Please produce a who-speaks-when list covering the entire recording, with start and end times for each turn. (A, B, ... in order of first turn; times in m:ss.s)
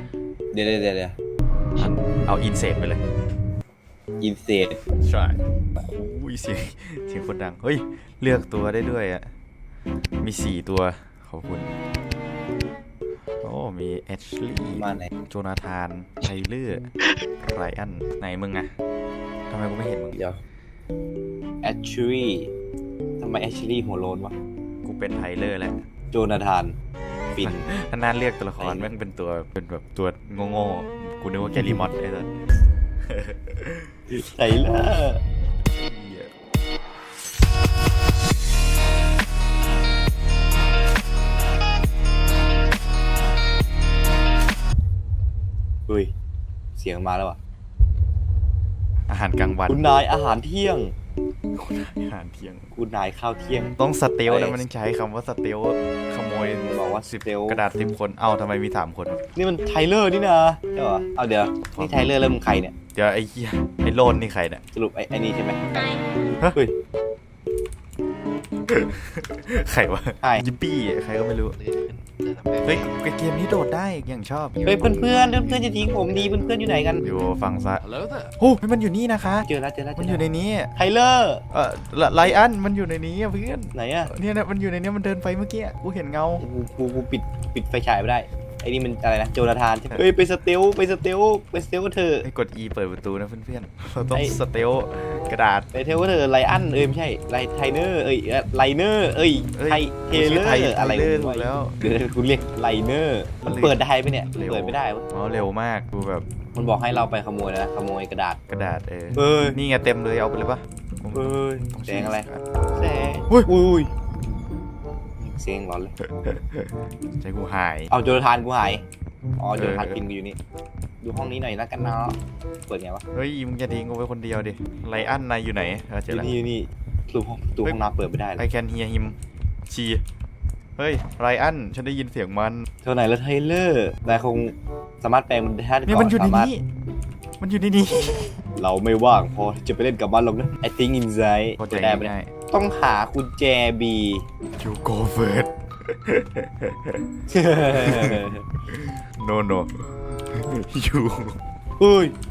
0:00.5-0:01.1 A
0:01.8-0:03.0 B
0:04.2-0:04.8 A
0:05.0-0:09.3 B
0:10.2-0:11.7 B
0:13.4-0:16.9 B
0:14.7-0:15.1 A
0:17.4-0:18.7 B
0:19.5-0:20.2 B
0:20.1-0:20.4 A
0:21.6-0:22.5 A
0:23.2-0:24.3 A
0:24.8-0:25.8 B
0:26.1-0:26.7 A
0:27.3-0:27.7 A
0:27.4-0:32.3 B
0:28.6-0:28.9 A
0:33.0-0:33.9 B
0:34.1-0:35.2 A
0:35.7-0:36.3 B
0:46.8-0:47.4 A
0:49.1-0:49.8 B
0:49.7-0:50.9 A
0:51.5-0:52.7 B
0:52.7-0:53.7 A
0:53.8-0:59.2 B
0:54.2-0:54.6 A
0:56.6-0:57.6 A
0:59.4-1:02.7 A
1:01.7-1:02.1 B
1:02.9-1:04.6 B
1:04.7-1:05.9 A
1:08.7-1:11.6 B
1:12.6-1:14.6 B
1:14.6-1:17.0 A
1:17.0-1:17.8 B
1:18.4-1:20.7 B
1:19.4-1:20.2 A
1:20.8-1:21.4 A
1:21.5-1:26.4 B
1:23.7-1:24.1 A
1:26.4-1:32.3 A
1:32.2-1:35.7 B
1:35.7-1:45.0 A
1:39.5-1:41.7 B
1:43.4-1:46.2 B
1:46.5-1:48.4 A
1:48.5-1:52.4 B
1:49.2-1:49.6 A
1:51.1-1:53.9 A
1:55.2-1:55.9 A
1:56.0-1:57.9 B
1:57.9-1:58.8 A
1:59.4-2:00.4 A
1:59.5-2:00.0 B
2:01.0-2:02.2 A
2:02.7-2:03.0 A
2:03.1-2:06.3 B
2:06.1-2:08.4 A
2:08.4-2:09.1 B
2:09.7-2:10.0 B
2:10.8-2:12.6 B
2:12.8-2:16.5 A
2:15.8-2:16.6 B
2:17.4-2:18.4 B
2:18.6-2:24.2 A
2:21.6-2:22.3 B
2:24.6-2:27.0 B
2:27.3-2:28.4 A
2:27.6-2:31.4 B
2:31.8-2:32.1 A